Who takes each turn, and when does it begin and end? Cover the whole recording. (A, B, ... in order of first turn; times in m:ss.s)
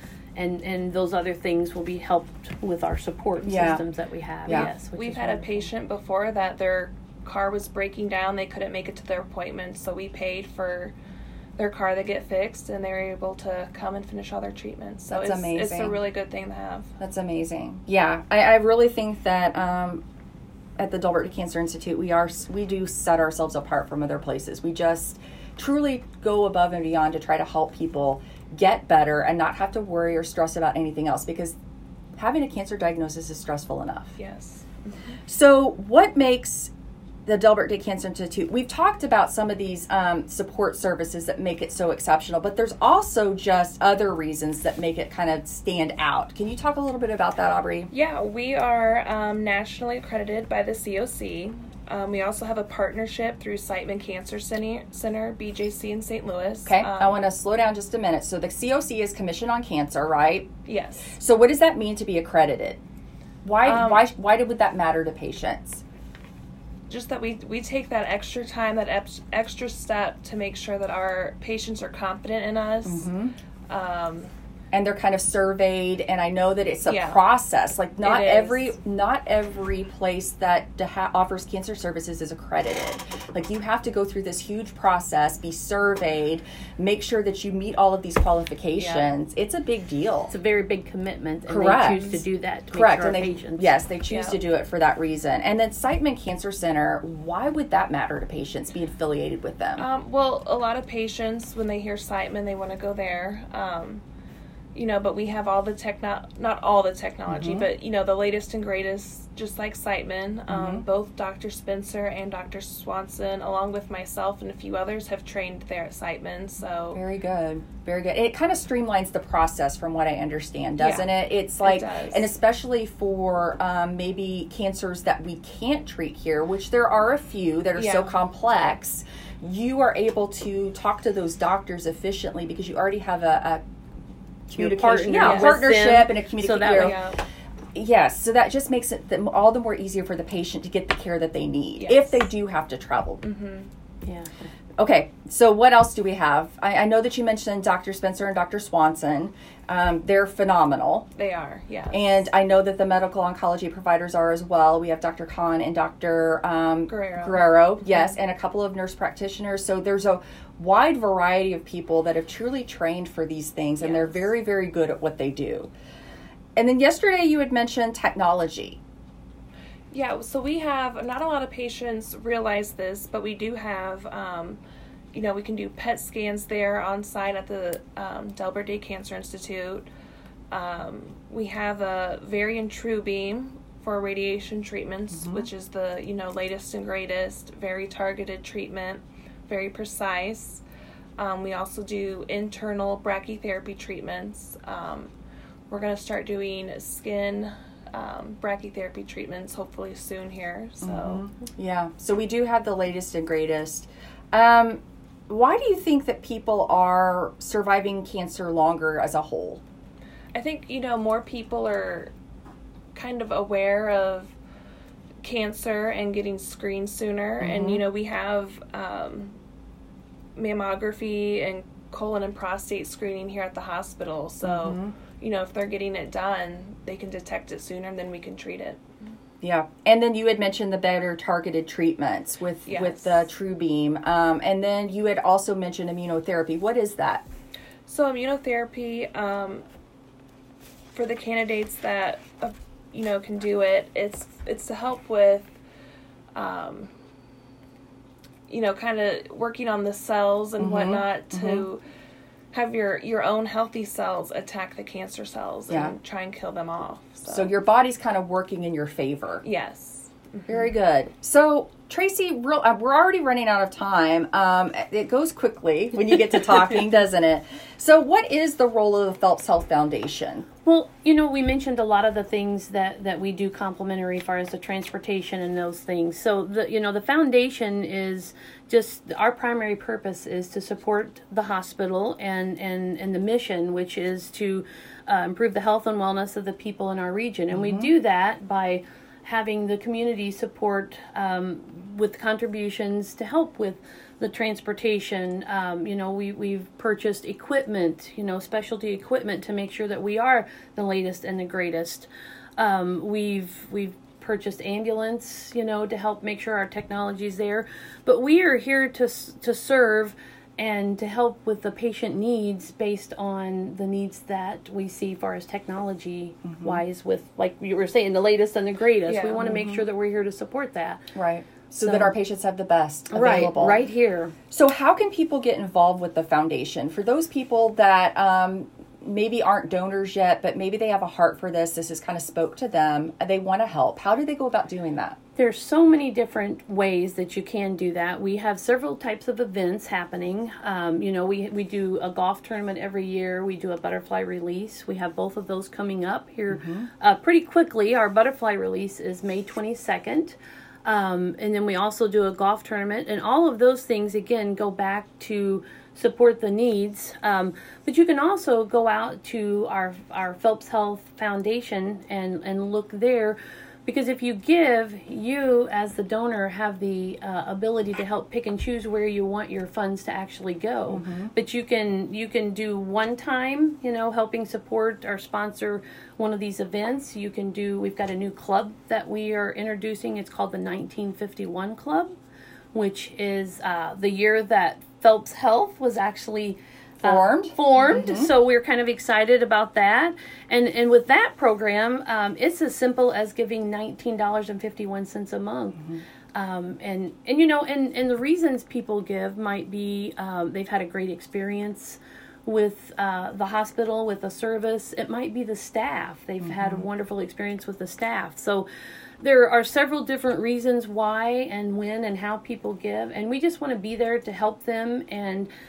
0:00.4-0:05.7 A
0:03.4-0:03.8 B
0:04.5-0:11.0 C
0:11.6-0:16.9 C
0:15.1-0:16.0 B
0:17.0-0:20.0 B
0:20.8-0:31.6 B
0:32.2-0:34.2 B
0:34.2-0:35.2 C
0:35.3-0:36.7 B
0:37.3-0:47.9 B
0:47.9-0:57.2 C
0:56.7-1:00.5 B
1:00.7-1:01.2 C
1:01.2-1:02.8 B
1:03.4-1:05.8 B
1:03.6-1:04.0 C
1:06.9-1:13.1 C
1:12.8-1:13.3 B
1:13.7-1:14.3 C
1:14.7-1:30.3 B
1:16.8-1:17.2 C
1:18.0-1:18.7 C
1:28.8-1:29.1 C
1:30.3-1:33.8 A
1:31.5-1:32.2 B
1:31.9-1:32.2 C
1:32.7-1:39.9 B
1:34.1-1:34.4 C
1:39.8-1:44.0 C
1:44.7-1:57.0 C
1:47.3-1:47.7 B
1:50.5-1:50.8 B
1:56.9-2:13.6 B
2:00.8-2:01.1 C
2:01.6-2:02.2 C
2:07.8-2:08.1 C
2:14.5-2:17.0 B
2:14.6-2:17.0 A
2:15.2-2:15.6 C
2:16.7-2:17.2 C
2:17.8-2:23.3 B
2:21.8-2:22.3 C
2:23.2-2:23.7 C
2:24.1-2:24.5 A
2:24.8-2:31.1 B
2:31.2-2:32.2 C
2:31.9-2:45.7 B
2:36.9-2:38.1 C
2:43.8-2:44.3 C
2:46.6-2:48.8 B
2:49.9-2:54.6 C
2:55.1-2:59.9 C
3:00.5-3:10.6 C
3:05.1-3:05.5 B
3:11.2-3:15.1 C
3:15.7-3:21.2 C
3:20.8-3:29.6 B
3:30.3-3:32.1 C
3:32.9-3:34.4 C
3:35.2-3:39.4 C
3:37.4-3:37.8 B
3:40.4-3:48.8 C
3:44.4-3:44.9 B
3:49.4-3:57.2 B
3:52.7-3:53.3 C
3:57.9-3:59.7 C
4:00.9-4:05.5 C
4:06.3-4:06.9 C
4:08.5-4:11.8 C
4:10.6-4:11.7 B
4:12.5-4:17.5 C
4:15.7-4:16.0 B
4:17.3-4:19.4 B
4:19.4-4:20.6 C
4:20.5-4:30.5 B
4:30.6-5:21.1 A
4:47.5-4:47.9 B
5:16.4-5:16.8 B
5:19.1-5:19.4 C
5:19.4-5:19.8 B
5:21.2-5:23.8 B
5:21.8-5:22.2 A
5:23.1-5:24.4 A
5:24.5-5:35.2 B
5:35.4-6:22.1 A
5:46.5-5:46.9 B
6:10.9-6:11.3 B
6:22.7-6:35.8 A
6:27.0-6:28.3 B
6:35.8-6:36.0 B
6:36.4-6:48.7 A
6:46.4-6:46.8 B
6:49.2-6:55.5 A